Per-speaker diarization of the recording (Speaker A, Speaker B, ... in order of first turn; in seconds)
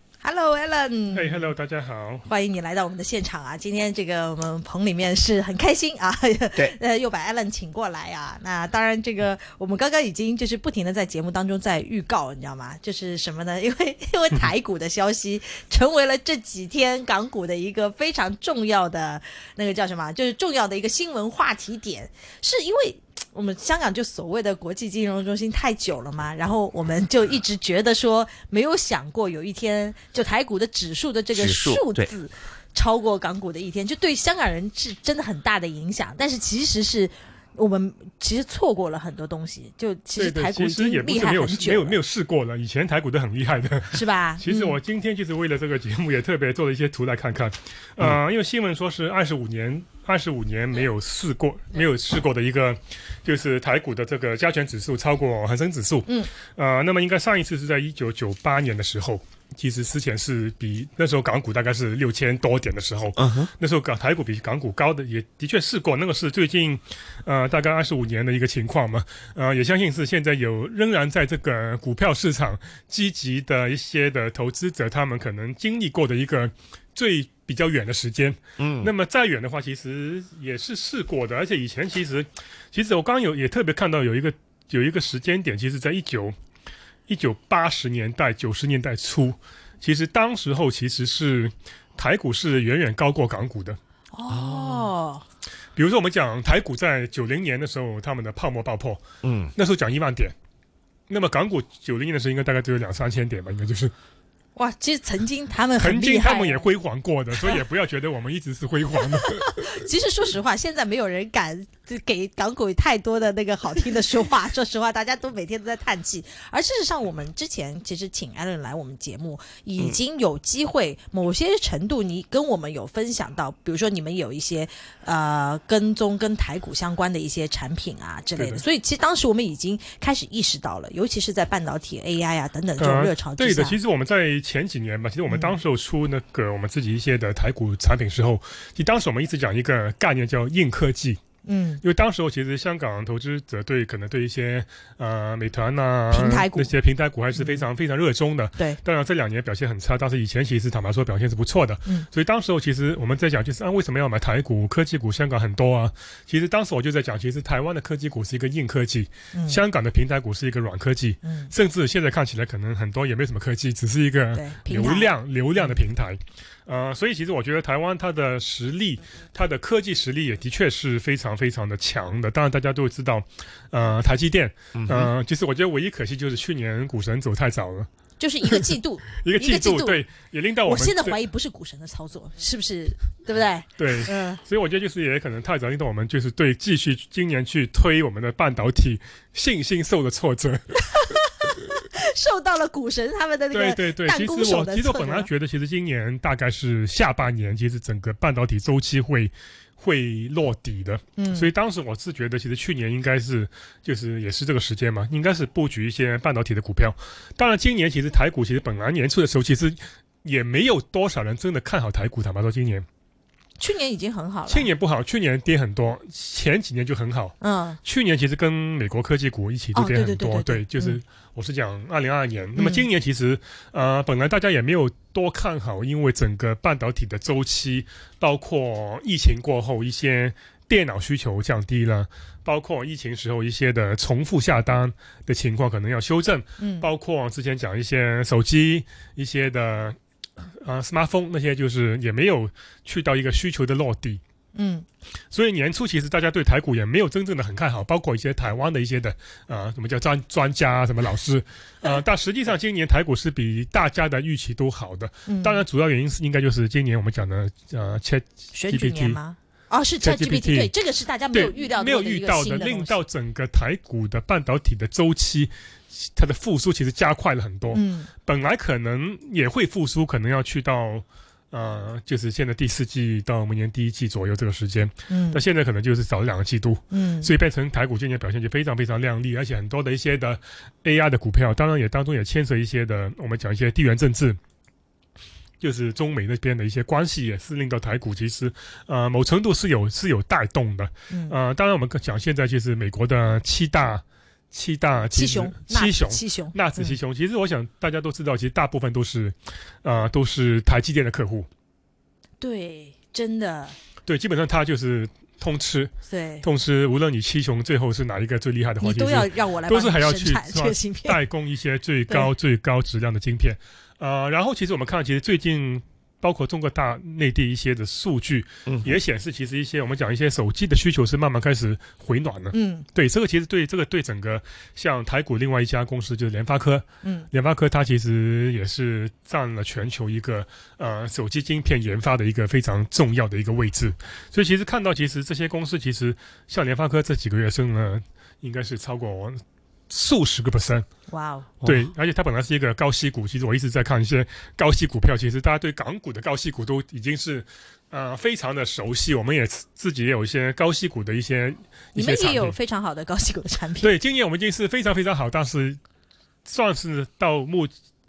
Speaker A: 0.2-1.5, 2.2-42.0, 43.9-44.8, 56.1-56.3, 94.1-95.2, 104.6-106.7, 109.1-133.8, 135.3-135.6, 141.4-141.8, 146.1-146.7, 147.3-147.7, 159.3-159.6, 161.2-161.5, 164.3-165.8, 178.2-180.0, 180.6-184.4, 190.9-195.3, 201.2-201.5, 213.6-214.7, 217.4-217.8, 219.7-221.0, 222.6-222.9, 236.6-236.9, 244.5-244.9, 255.3-255.7, 258.5-263.0, 267.7-268.1, 275.1-275.4, 276.9-277.3, 291.1-291.4, 295.1-297.0, 302.4-303.8, 306.1-306.5, 308.8-311.2, 322.5-322.9, 327.0-327.3, 341.1-341.6, 351.9-353.9
Speaker B: 1.1-2.3, 40.2-86.3, 87.1-93.8, 95.8-99.0, 99.5-100.3, 101.1-103.9, 105.8-109.7, 128.4-128.6, 132.8-141.2, 141.8-177.9, 178.4-181.2, 183.8-191.5, 193.5-212.9, 214.5-244.2, 245.3-259.2, 260.0-260.7, 261.3-284.4, 285.6-301.5, 304.0-340.9, 341.6-352.6, 353.8-355.8, 356.4-357.7
Speaker C: 31.3-32.1, 63.2-63.5, 78.6-78.9, 94.3-94.9, 99.2-99.5, 174.7-175.1, 318.6-318.9